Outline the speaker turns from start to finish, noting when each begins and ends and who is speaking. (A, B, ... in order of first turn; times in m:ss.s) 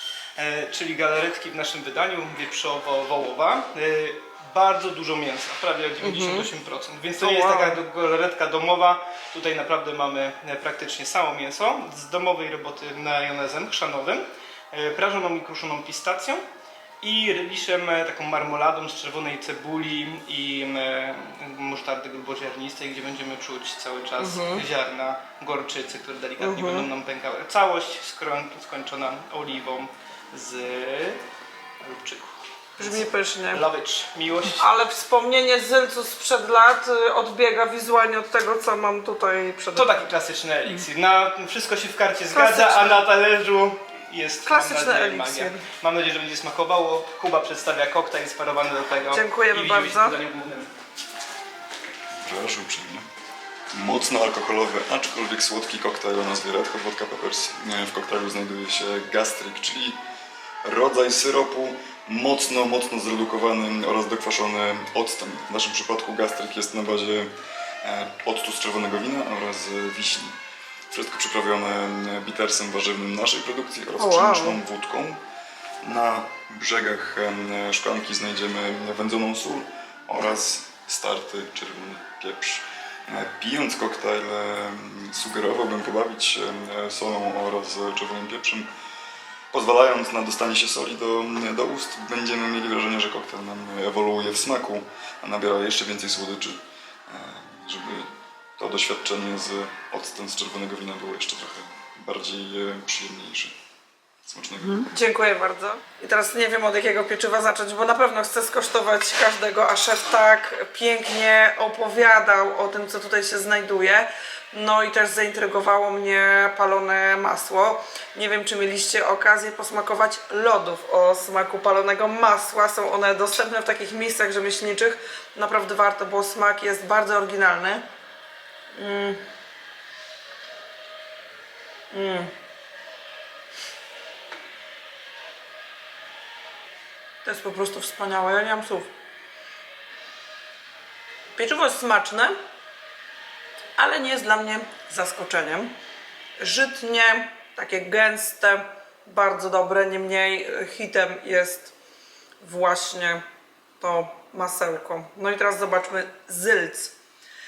0:00.4-0:16.4 A
0:06.0-0:06.5 B
0:07.2-0:07.8 B
0:17.0-0:31.2 A
0:24.2-0:24.6 B
0:26.4-0:26.9 B
0:31.8-0:34.6 A
0:32.8-0:33.6 B
0:34.5-0:40.0 B
0:39.7-0:50.7 A
0:42.3-0:43.0 B
0:44.4-0:45.6 B
0:49.1-0:50.2 B
0:52.2-0:53.1 C
0:53.7-1:00.0 C
1:00.6-1:07.3 C
1:07.8-1:10.3 C
1:10.9-1:15.2 C
1:14.0-1:14.6 B
1:15.8-1:28.7 C
1:29.5-1:43.5 C
1:44.2-1:44.9 C
1:44.7-2:07.8 B
2:08.7-2:09.2 B
2:11.9-2:12.3 B
2:17.2-2:18.9 B
2:21.4-2:22.3 B
2:23.8-2:25.7 B
2:26.4-2:31.7 B
2:32.4-2:33.2 B
2:33.8-2:36.9 B